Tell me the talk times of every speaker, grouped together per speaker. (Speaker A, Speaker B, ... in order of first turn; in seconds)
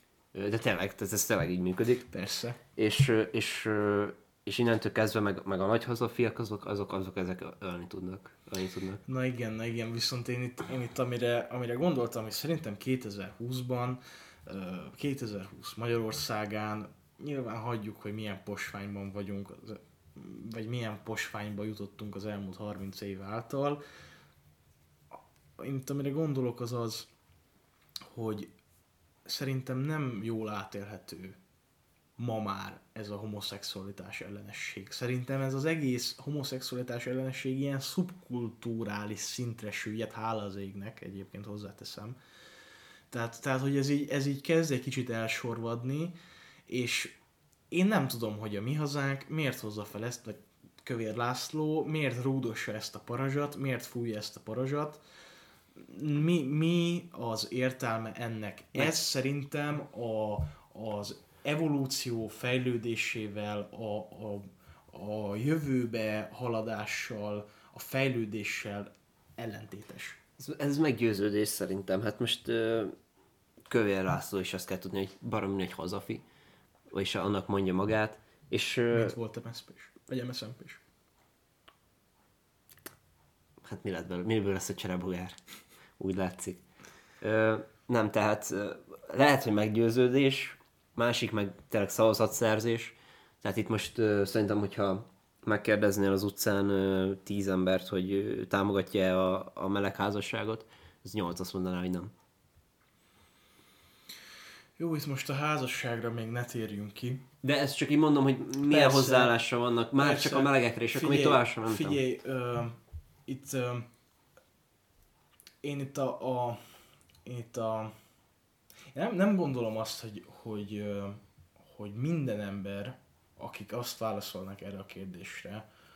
Speaker A: 0.3-2.1, 2.8-9.0, 70.4-72.9, 73.7-76.2, 76.9-79.2, 83.6-85.4, 86.0-86.6, 87.2-102.1, 107.4-112.0
Speaker B: 2.1-2.6, 9.1-23.8, 25.6-27.1, 28.1-28.5, 29.2-31.4, 32.2-42.2, 43.1-46.2, 46.7-47.1, 47.7-55.0, 55.8-70.2, 78.9-80.8, 104.8-107.2, 108.7-109.4, 109.9-113.9, 115.6-116.6, 117.2-117.9, 118.9-125.6